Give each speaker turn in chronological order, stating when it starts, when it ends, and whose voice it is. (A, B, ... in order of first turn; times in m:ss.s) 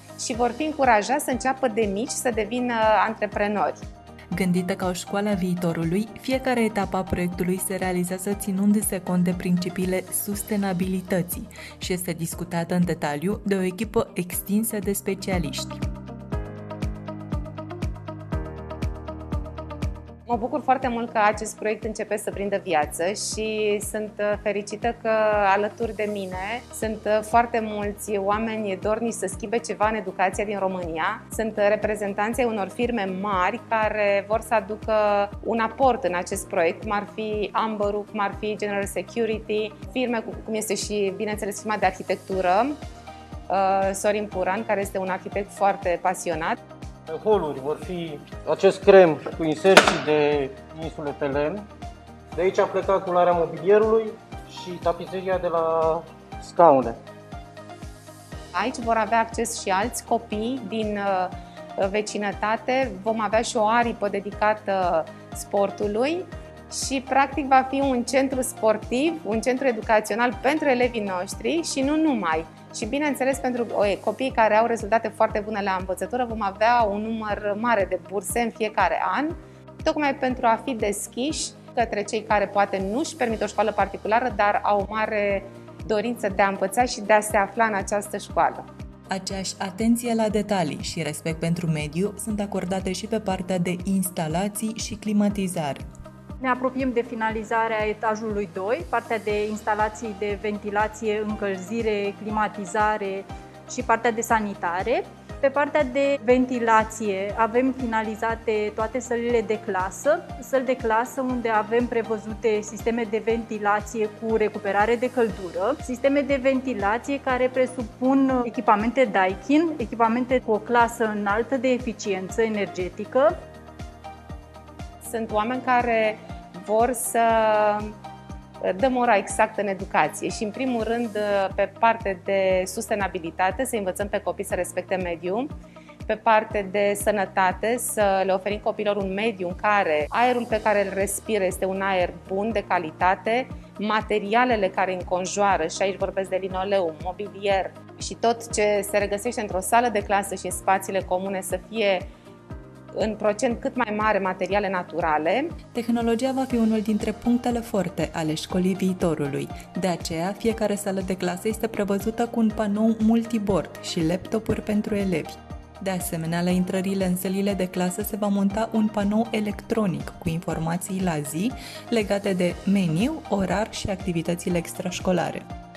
0:00.2-0:03.8 A
0:04.3-0:15.8 B
0:20.3-0:42.8 A
0:43.5-0:46.6 A
0:47.1-0:51.6 C
0:52.3-0:57.0 C
0:58.5-1:28.6 A
1:29.1-1:35.8 B
1:36.4-2:03.3 D
2:05.0-2:07.9 A
2:08.6-2:15.5 A
2:16.0-2:32.1 A
2:32.9-2:35.5 A
2:35.7-2:55.4 B